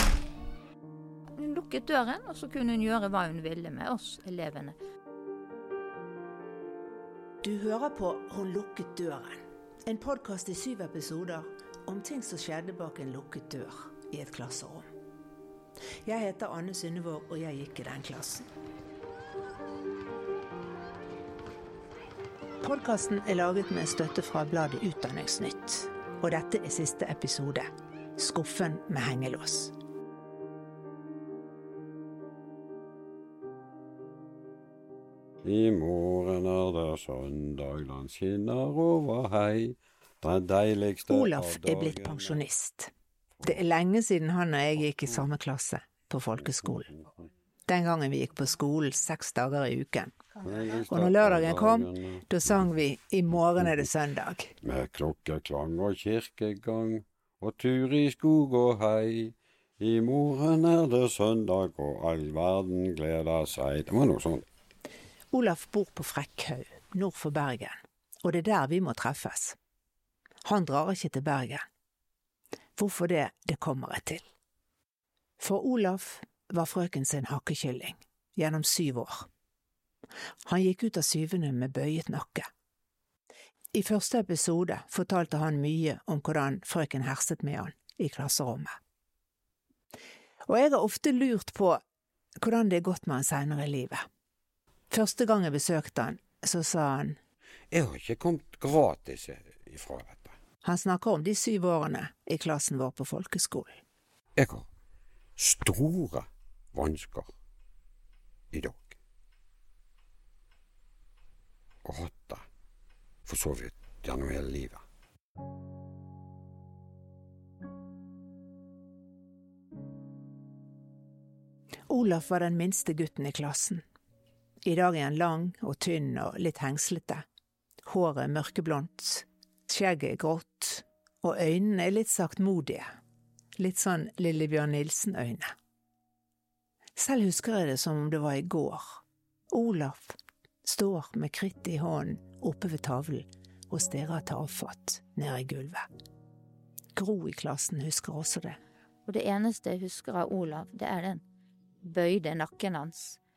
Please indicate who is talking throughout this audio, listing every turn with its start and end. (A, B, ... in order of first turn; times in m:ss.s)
0:01.4-0:04.8 A
0:07.4-0:14.9 B
0:16.0-0:18.4 B
0:22.6-0:29.7 B
0:35.4-0:42.4 C
0:41.1-0:42.9 B
0:43.4-0:46.9 B
0:47.7-0:50.2 B
0:50.4-0:52.5 C
0:50.9-0:54.6 B
0:54.6-1:04.4 C
1:05.3-1:09.6 B
1:10.4-1:11.7 B
1:12.8-1:14.2 B
1:15.4-1:19.3 B
1:20.4-1:22.5 B
1:23.7-1:28.8 B
1:30.5-1:31.8 B
1:32.4-1:34.0 B
1:34.9-1:37.2 B
1:37.7-1:40.4 C
1:40.6-1:43.8 B
1:44.4-1:44.7 C
1:45.4-1:47.3 C
1:48.5-1:49.0 C
1:51.8-1:52.4 C
1:53.2-1:54.8 C
2:01.9-2:03.8 B
2:04.6-2:07.2 B
2:07.8-2:12.9 B
2:13.6-2:15.5 B
2:17.0-2:25.9 B
2:26.9-2:28.6 B
2:29.1-2:31.2 A
2:31.8-2:33.2 A